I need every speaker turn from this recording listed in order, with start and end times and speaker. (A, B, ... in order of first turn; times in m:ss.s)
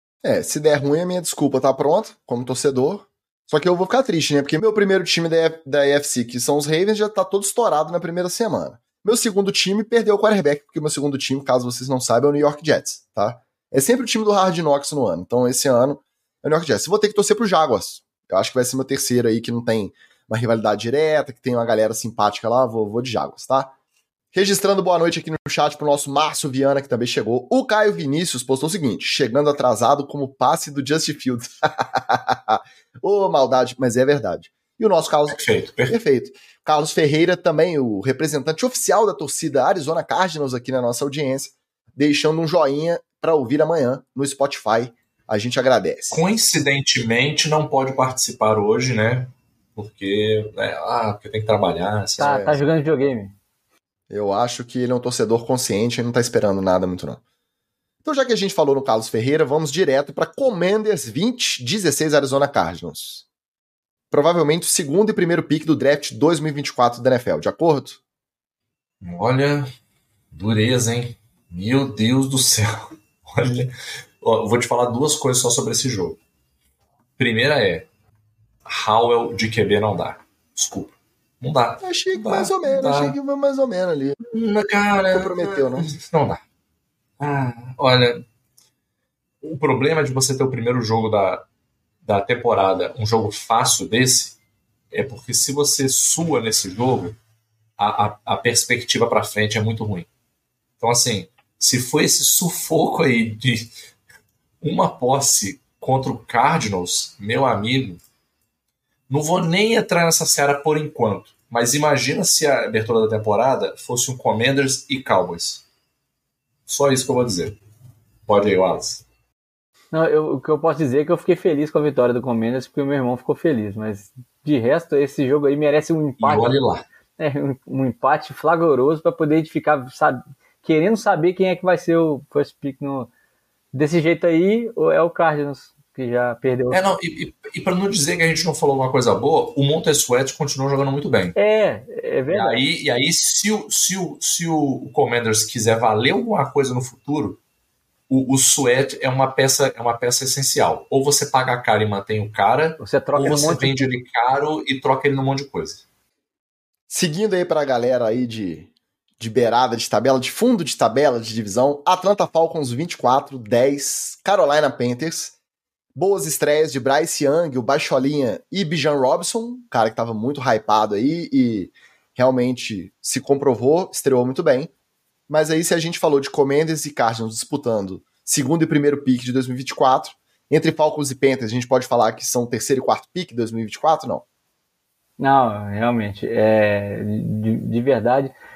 0:00.2-0:23.7 A
0:24.3-0:46.2 A
0:35.3-0:35.9 B
0:46.1-0:52.5 B
0:52.2-0:53.3 C
0:52.2-0:52.5 A
0:54.1-0:57.2 A
0:58.0-1:03.2 A
1:04.1-1:08.0 A
1:09.0-1:09.7 B
1:10.3-1:16.2 B
1:17.2-1:17.9 B
1:18.6-1:23.2 B
1:21.8-1:24.2 A
1:24.2-1:26.4 B
1:25.1-1:25.9 A
1:27.2-1:28.2 B
1:29.4-1:31.4 B
1:32.0-1:34.4 B
1:34.9-1:37.1 B
1:37.8-1:40.1 B
1:40.8-1:43.7 B
1:44.6-1:48.0 B
1:49.1-1:55.6 B
1:56.7-1:57.6 B
1:58.3-1:59.0 B
1:59.9-2:06.5 C
2:06.2-2:06.8 B
2:07.2-2:13.1 C
2:13.7-2:16.8 C
2:16.7-2:21.3 B
2:21.3-2:22.6 C
2:22.3-2:27.4 B
2:28.1-2:35.8 B
2:32.8-2:33.8 C
2:36.9-2:38.7 A
2:39.2-2:45.3 A
2:45.9-2:54.7 A
2:55.3-3:04.2 A
3:05.2-3:08.3 C